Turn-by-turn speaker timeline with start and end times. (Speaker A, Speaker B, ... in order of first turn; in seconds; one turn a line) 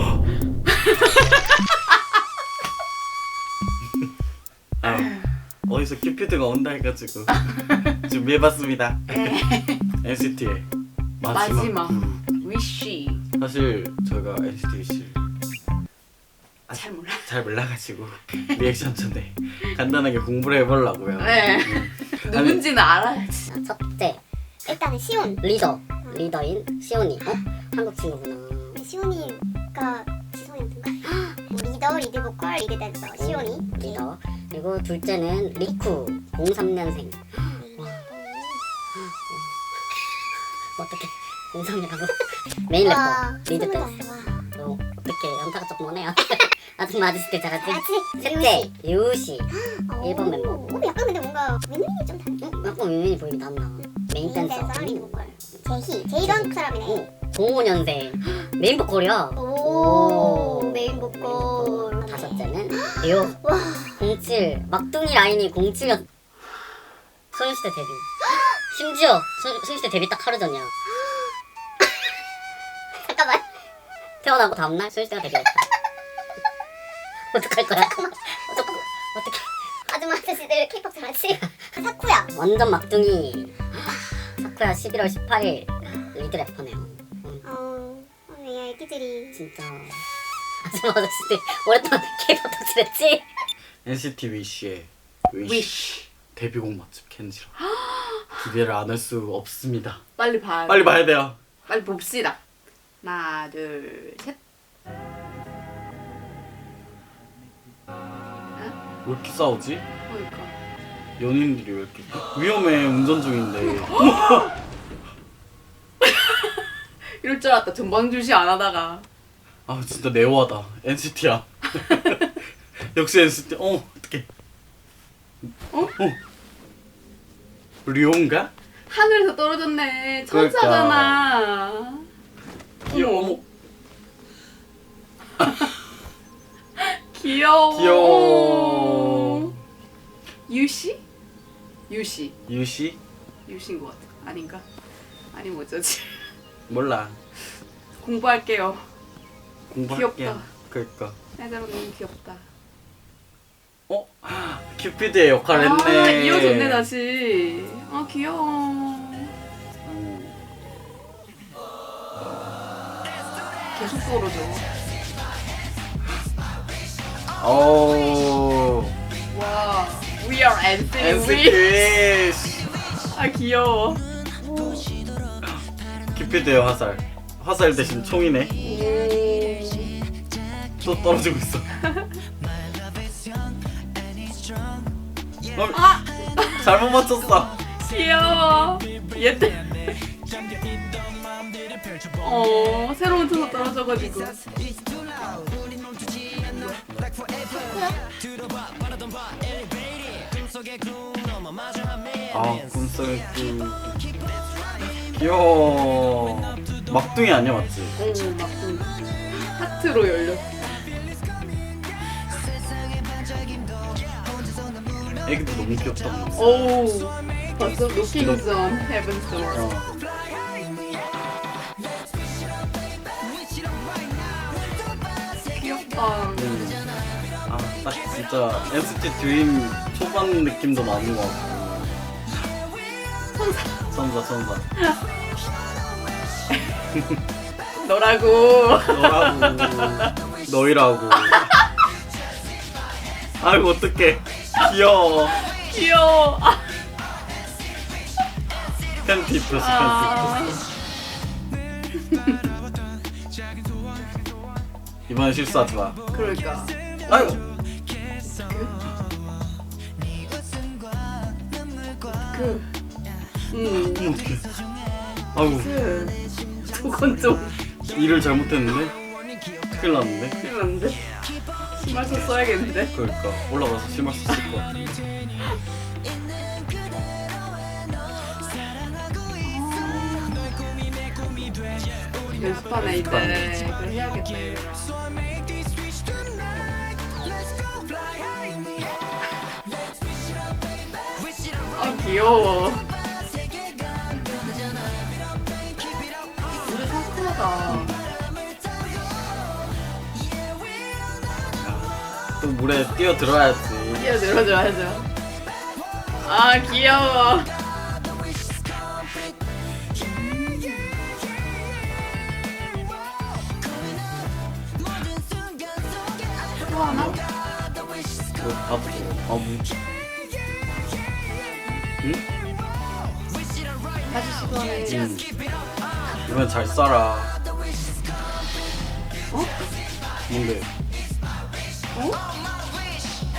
Speaker A: 0.7-1.8
Speaker B: 4.8-9.2
Speaker A: 9.1-9.8
Speaker B: 10.0-10.7
Speaker B: 11.2-12.2
Speaker A: 11.3-13.2
Speaker B: 13.4-15.2
Speaker B: 16.7-22.6
Speaker A: 16.7-17.3
Speaker A: 21.2-23.5
Speaker C: 23.5-24.2
Speaker D: 24.7-25.4
Speaker C: 25.4-28.8
Speaker D: 28.8-34.0
Speaker C: 33.2-37.2
Speaker D: 37.5-38.6
Speaker C: 37.8-38.0
Speaker C: 39.0-39.6
Speaker C: 40.6-50.8
Speaker D: 42.8-44.5
Speaker D: 47.6-48.7
Speaker D: 49.5-52.5
Speaker C: 52.4-55.6
Speaker D: 54.0-57.1
Speaker C: 56.2-63.4
Speaker D: 59.4-64.0
Speaker C: 64.0-66.1
Speaker C: 67.3-68.1
Speaker C: 68.7-70.7
Speaker C: 74.2-75.7
Speaker C: 77.3-81.7
Speaker D: 80.8-81.1
Speaker D: 81.7-82.3
Speaker C: 82.3-83.7
Speaker C: 84.4-87.5
Speaker D: 87.4-89.4
Speaker C: 89.3-90.0
Speaker C: 90.6-93.2
Speaker B: 93.8-95.8
Speaker A: 95.4-96.1
Speaker B: 96.3-97.5
Speaker A: 97.7-98.4
Speaker B: 98.4-100.0
Speaker A: 100.2-100.9
Speaker B: 100.7-101.4
Speaker A: 101.7-102.4
Speaker A: 103.0-104.4
Speaker B: 109.0-109.8
Speaker A: 110.1-110.6
Speaker B: 111.2-114.5
Speaker A: 113.9-114.3
Speaker A: 116.0-119.1
Speaker B: 119.7-124.3
Speaker B: 127.9-128.5
Speaker A: 128.9-132.1
Speaker B: 130.3-131.2
Speaker A: 132.9-133.4
Speaker B: 132.9-133.4
Speaker A: 136.8-139.5
Speaker B: 137.7-139.3
Speaker A: 140.5-141.0
Speaker A: 141.9-142.3
Speaker B: 142.5-143.0
Speaker A: 143.5-144.6
Speaker A: 145.3-146.3
Speaker B: 146.7-147.2
Speaker A: 148.0-148.9
Speaker B: 149.7-151.2
Speaker A: 149.9-150.5
Speaker A: 151.4-152.5
Speaker B: 153.9-156.9
Speaker A: 155.5-159.3
Speaker B: 159.8-160.4
Speaker B: 162.2-162.5
Speaker A: 163.7-164.7
Speaker B: 167.4-168.9
Speaker A: 169.3-171.9
Speaker B: 171.0-172.8
Speaker A: 173.1-174.9
Speaker B: 176.1-178.6
Speaker A: 178.6-180.0
Speaker B: 180.8-181.7
Speaker B: 185.5-187.6
Speaker A: 185.7-186.7
Speaker A: 187.7-190.0
Speaker A: 192.2-194.4
Speaker A: 197.5-198.0
Speaker B: 202.3-204.3
Speaker B: 205.1-208.0
Speaker A: 208.0-210.6
Speaker B: 215.2-216.7
Speaker A: 216.4-219.7
Speaker B: 218.2-218.4
Speaker B: 219.5-219.9
Speaker A: 225.4-226.6
Speaker B: 226.4-226.8
Speaker B: 227.5-232.1
Speaker A: 233.3-233.9
Speaker B: 233.9-234.7
Speaker A: 237.7-240.2
Speaker B: 238.9-241.5
Speaker A: 241.2-241.6
Speaker B: 243.4-245.4
Speaker A: 245.3-246.7
Speaker B: 249.0-250.5
Speaker A: 249.5-250.7
Speaker A: 252.1-252.4
Speaker B: 255.1-256.0
Speaker A: 256.1-257.4
Speaker B: 257.1-257.4
Speaker A: 258.2-258.9
Speaker A: 262.3-262.7
Speaker A: 263.5-264.1
Speaker B: 263.7-264.5
Speaker B: 265.3-265.7
Speaker A: 265.5-267.6
Speaker B: 267.8-268.9
Speaker B: 269.7-270.4
Speaker A: 270.4-271.2
Speaker A: 271.7-272.9
Speaker B: 272.0-272.3
Speaker B: 272.9-275.0
Speaker A: 279.4-280.5
Speaker A: 282.3-285.1
Speaker B: 282.8-283.6
Speaker A: 291.7-292.9
Speaker A: 296.5-298.0
Speaker B: 297.7-298.1
Speaker B: 301.6-304.2
Speaker A: 303.9-305.1
Speaker A: 306.2-307.5
Speaker A: 310.0-310.9
Speaker A: 316.6-317.2
Speaker B: 316.9-317.2
Speaker B: 318.4-319.7
Speaker A: 324.1-325.1
Speaker B: 324.9-325.3
Speaker B: 326.2-327.3
Speaker A: 329.3-329.7
Speaker B: 330.3-330.7